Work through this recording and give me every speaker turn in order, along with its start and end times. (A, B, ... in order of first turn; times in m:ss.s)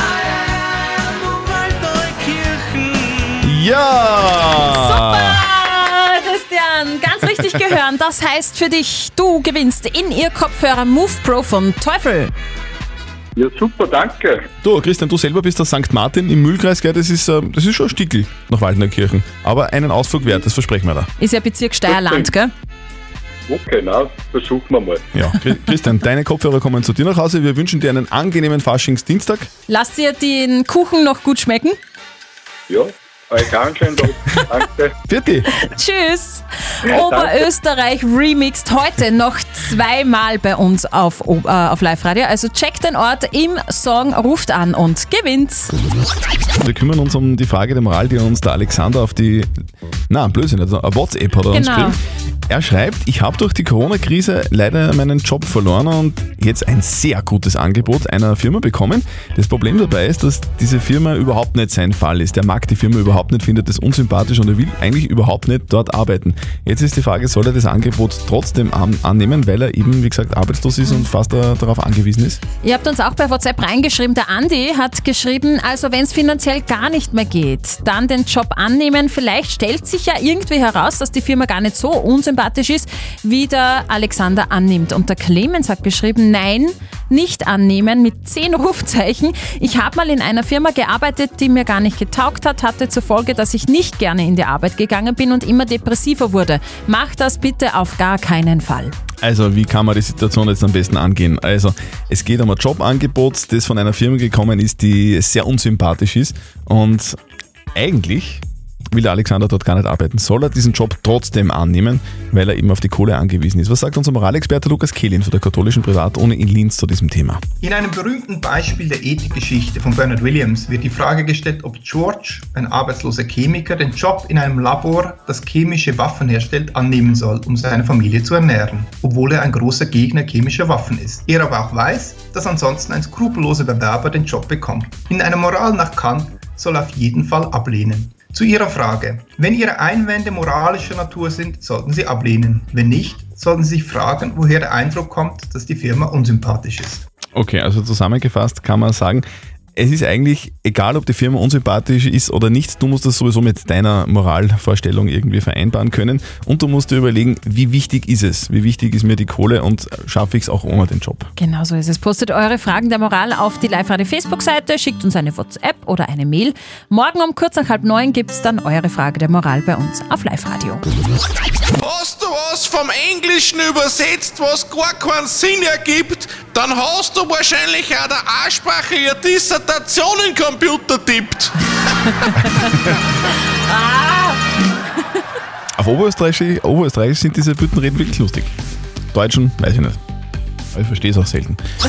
0:01.4-0:03.3 A
0:03.4-0:05.4 B
0:04.6-0:12.3 C
0:13.4-0:14.4 D
0:14.6-0:21.1 B
0:21.2-0:22.5 C
0:21.9-0:22.3 D
0:23.5-0:25.0 D
0:25.1-0:29.5 B
0:29.7-0:31.8 C
0:32.7-0:34.9 D
0:35.1-0:35.5 B
0:35.5-0:45.7 C
0:36.9-0:37.4 D
0:46.6-0:49.5 B
0:50.1-1:12.4 B
0:51.5-0:52.0 C
1:12.6-1:39.0 C
1:39.2-1:47.2 B
1:47.8-1:57.4 B
1:57.6-2:27.0 E
2:27.4-2:29.2 B
2:29.8-2:41.3 B
2:41.4-2:50.8 C
2:51.8-3:01.5 A
3:03.7-3:04.4 C
3:05.8-3:08.5 B
3:09.1-3:10.0 B
3:10.7-3:11.6 B